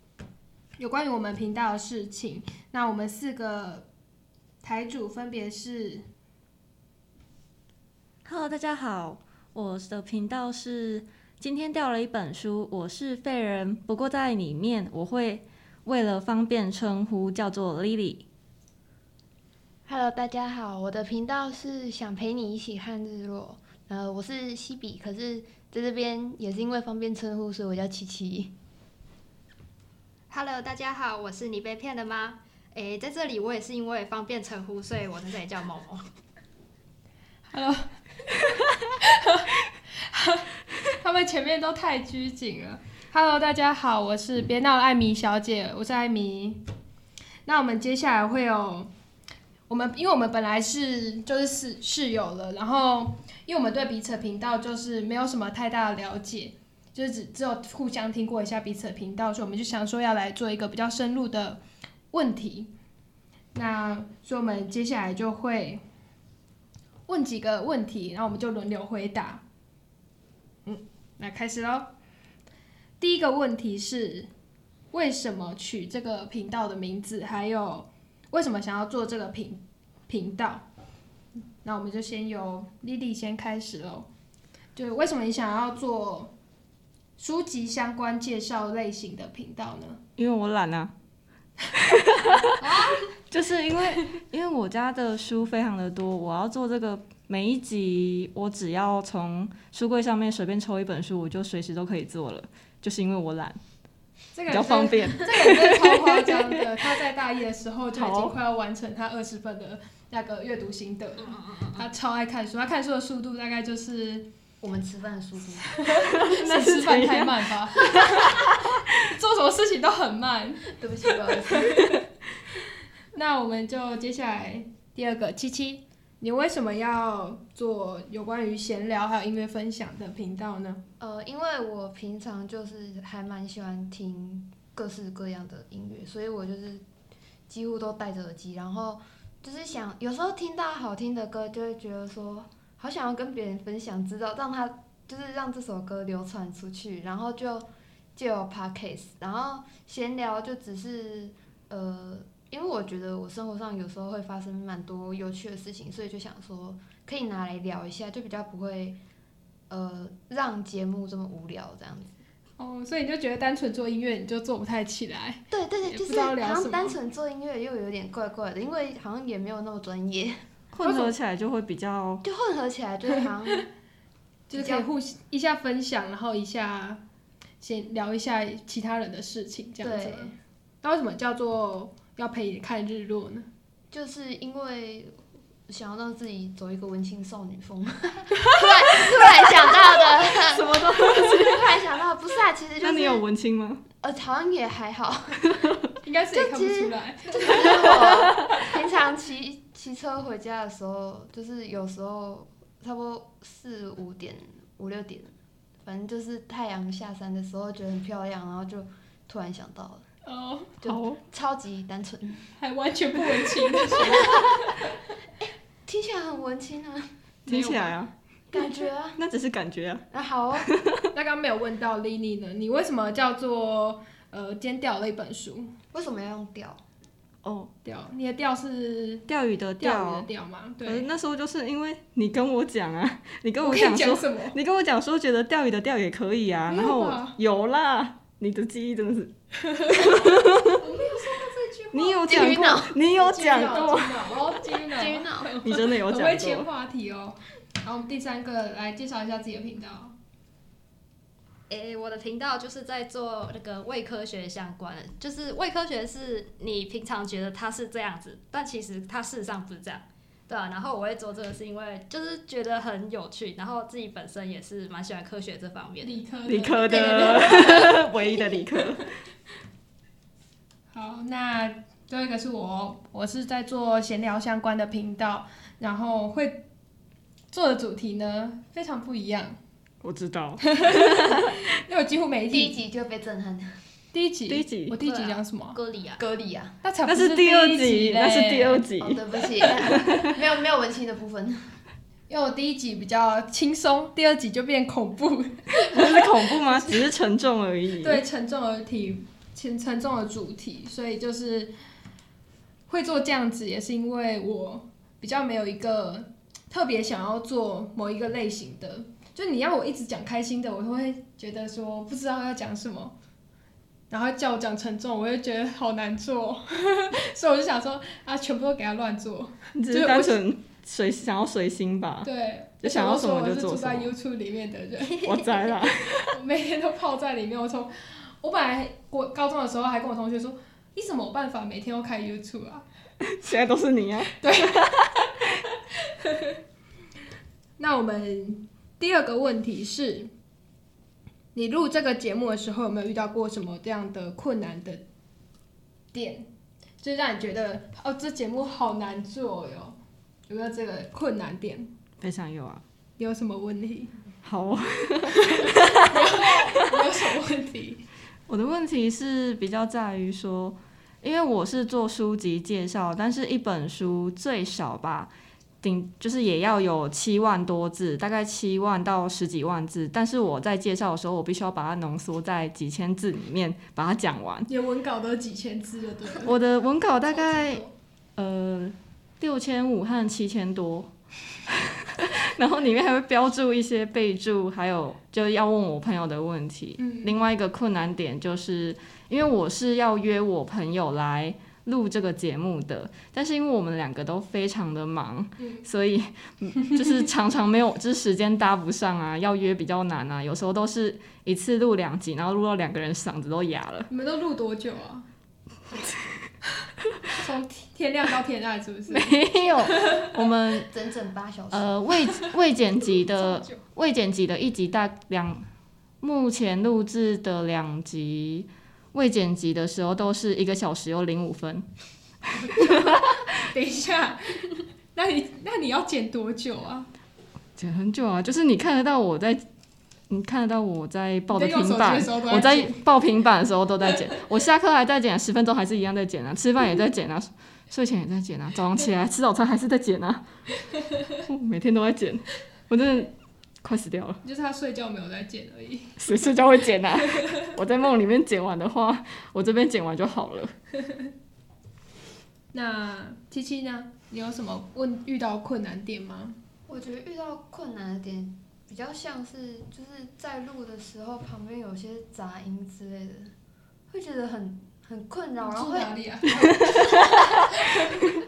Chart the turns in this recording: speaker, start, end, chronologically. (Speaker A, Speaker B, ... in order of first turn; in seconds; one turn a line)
Speaker A: 0.8-3.9
Speaker A: 4.6-6.0
Speaker B: 8.2-18.2
Speaker C: 19.9-28.5
Speaker D: 30.3-36.0
Speaker A: 37.5-46.6
Speaker A: 47.5-48.9
Speaker A: 49.7-62.7
Speaker A: 63.5-65.8
Speaker A: 67.1-69.4
Speaker A: 70.7-71.9
Speaker A: 73.0-74.3
Speaker A: 74.9-80.7
Speaker A: 81.6-84.1
Speaker A: 84.8-86.3
Speaker A: 87.2-90.0
Speaker B: 90.2-90.9
Speaker B: 91.7-92.5
Speaker A: 92.6-93.1
Speaker B: 93.3-103.6
Speaker A: 104.3-114.3
Speaker B: 104.5-106.5
Speaker B: 107.9-108.3
Speaker D: 111.3-111.8
Speaker C: 114.6-115.8
Speaker A: 115.7-120.7
Speaker B: 116.0-119.0
Speaker C: 120.7-121.7
Speaker A: 121.5-122.0
Speaker A: 123.1-130.8
Speaker C: 131.0-136.8
Speaker C: 137.5-159.0
Speaker C: 159.7-162.2
Speaker A: 162.6-166.9
Speaker C: 165.5-170.4
Speaker B: 170.7-172.2
Speaker A: 170.8-171.1
Speaker C: 172.2-173.7
Speaker A: 173.1-173.6
Speaker A: 174.5-177.0
Speaker C: 174.5-174.9
Speaker A: 177.6-183.5
Speaker C: 179.8-180.3
Speaker C: 183.9-193.2
Speaker B: 190.3-191.7
Speaker B: 192.8-193.8
Speaker C: 194.0-195.7
Speaker A: 196.0-198.7
Speaker C: 196.3-205.3
Speaker C: 205.8-210.0
Speaker A: 210.2-210.8
Speaker C: 210.8-212.5
Speaker B: 210.8-211.2
Speaker A: 212.6-214.9
Speaker C: 213.9-214.4
Speaker C: 215.4-217.1
Speaker B: 217.5-218.1
Speaker A: 217.5-218.0
Speaker C: 218.5-219.2
Speaker B: 219.2-220.0
Speaker C: 220.1-220.7
Speaker B: 220.6-221.1
Speaker A: 221.1-225.7
Speaker C: 225.9-226.8
Speaker B: 227.4-227.7
Speaker A: 227.8-229.3
Speaker B: 229.3-230.3
Speaker A: 229.8-231.1
Speaker B: 230.8-239.3
Speaker A: 233.6-234.6
Speaker A: 236.7-237.4
Speaker A: 239.6-242.3
Speaker B: 239.9-240.8
Speaker B: 241.9-244.5
Speaker C: 242.3-243.0
Speaker A: 243.1-250.1
Speaker C: 244.9-245.6
Speaker B: 245.6-246.7
Speaker D: 251.7-266.2
Speaker A: 266.0-268.5
Speaker B: 266.5-269.1
Speaker A: 270.9-276.6
Speaker A: 277.5-279.6
Speaker B: 280.0-281.6
Speaker A: 280.6-282.8
Speaker C: 282.5-283.8
Speaker A: 284.1-285.8
Speaker B: 284.5-285.0
Speaker D: 285.0-286.2
Speaker C: 286.2-286.8
Speaker A: 286.8-288.8
Speaker B: 287.1-290.4
Speaker C: 289.0-291.8
Speaker A: 292.3-297.0
Speaker B: 295.8-298.2
Speaker A: 298.0-301.7
Speaker A: 302.9-313.1
Speaker A: 314.1-320.4
Speaker B: 319.7-324.1
Speaker A: 322.2-325.7
Speaker B: 325.2-326.4
Speaker A: 326.3-332.9
Speaker B: 333.2-334.9
Speaker A: 334.4-335.1
Speaker A: 336.0-336.6
Speaker A: 337.8-340.3
Speaker A: 341.5-345.0
Speaker A: 346.1-346.5
Speaker A: 347.0-350.0
Speaker A: 350.5-351.9
Speaker B: 352.2-352.8
Speaker A: 353.2-354.2
Speaker B: 354.4-356.4
Speaker A: 355.3-358.0
Speaker B: 358.5-365.3
Speaker B: 365.8-374.7
Speaker A: 374.7-376.5
Speaker B: 376.4-377.9
Speaker A: 377.3-377.9
Speaker B: 378.4-381.1
Speaker B: 381.7-404.1
Speaker A: 387.0-387.3
Speaker A: 395.6-395.9
Speaker A: 404.1-405.3
Speaker A: 407.3-410.3
Speaker B: 409.1-410.9
Speaker C: 410.9-411.9
Speaker B: 411.7-415.6
Speaker D: 413.4-413.8
Speaker B: 416.2-421.9
Speaker A: 422.5-427.1
Speaker B: 422.7-423.3
Speaker B: 427.8-429.6
Speaker B: 430.3-440.4
Speaker A: 431.5-433.0
Speaker B: 441.4-443.3
Speaker B: 443.8-444.4
Speaker A: 444.4-446.2
Speaker B: 446.2-450.7
Speaker A: 451.0-451.3
Speaker A: 452.7-456.6
Speaker C: 456.9-463.5
Speaker C: 464.1-467.4
Speaker A: 465.6-466.8
Speaker A: 467.6-468.2